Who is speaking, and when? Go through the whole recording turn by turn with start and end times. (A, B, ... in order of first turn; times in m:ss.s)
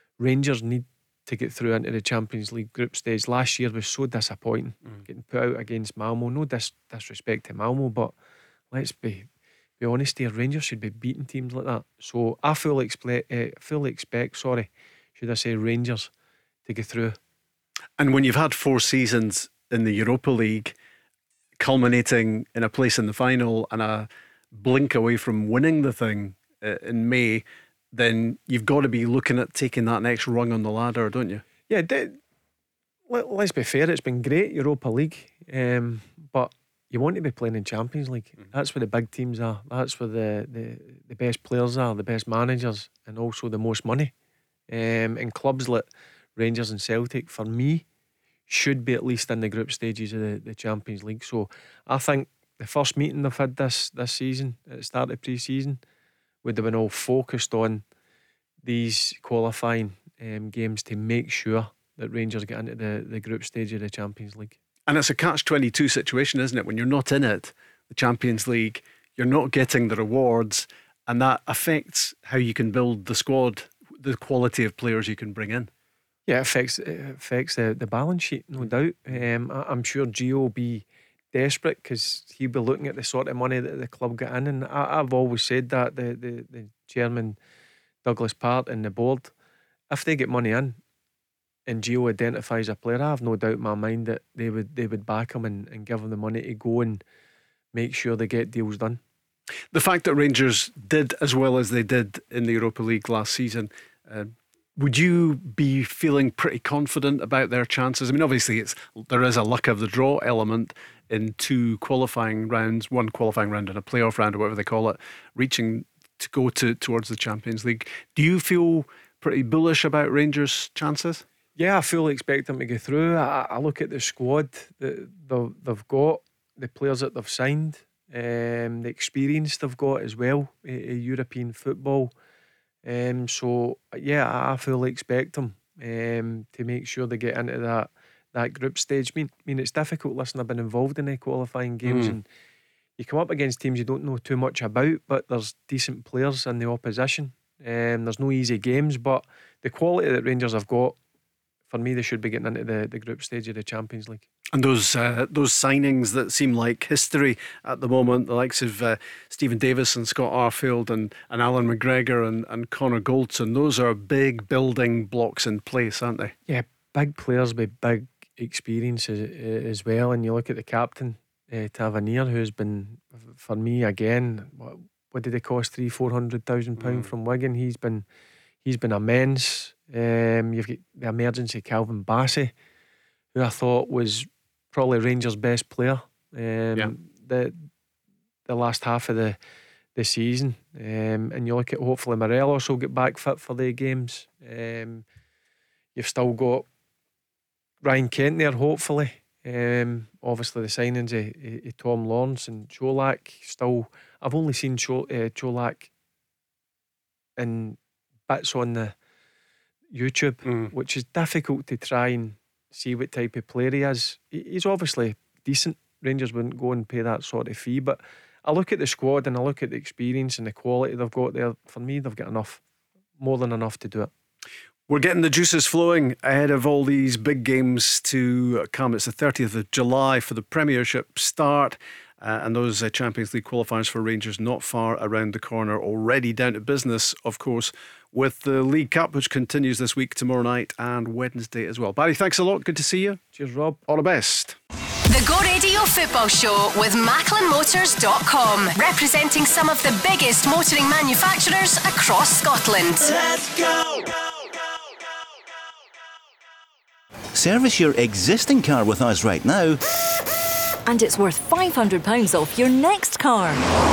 0:00.2-0:08.1 A
0:08.7-0:09.3 A
0:09.8-0:16.1 A
0:16.6-0:17.2 A
0:18.0-0:20.7 B
0:21.6-0:31.4 B
0:31.7-0:32.2 A
0:33.1-0:44.1 A
0:44.7-0:47.8 A
0:48.5-0:55.8 A
0:56.4-0:57.8 A
0:58.6-1:04.6 A
1:04.9-1:15.7 B
1:16.2-1:27.4 A
1:28.0-1:29.3 A
1:29.9-1:30.8 A
1:31.7-1:37.0 A
1:37.7-1:39.0 A
1:39.7-2:01.2 B
2:01.6-2:12.1 A
2:12.8-2:22.2 A
2:21.8-2:22.2 B
2:23.0-2:31.0 A
2:31.7-2:34.2 A
2:34.5-2:46.4 B
2:46.5-2:58.0 A
2:56.8-2:57.1 B
2:58.6-3:02.5 A
3:03.3-3:07.6 A
3:08.4-3:09.4 A
3:09.9-3:15.0 A
3:15.9-3:16.7 A
3:17.8-3:25.9 A
3:27.4-3:28.9 A
3:29.9-3:42.6 A
3:43.2-3:44.1 A
3:44.9-4:03.2 B
4:03.3-4:03.8 A
4:03.8-4:04.6 B
4:05.1-4:13.2 C
4:17.3-4:19.8 D
4:20.8-4:23.6 E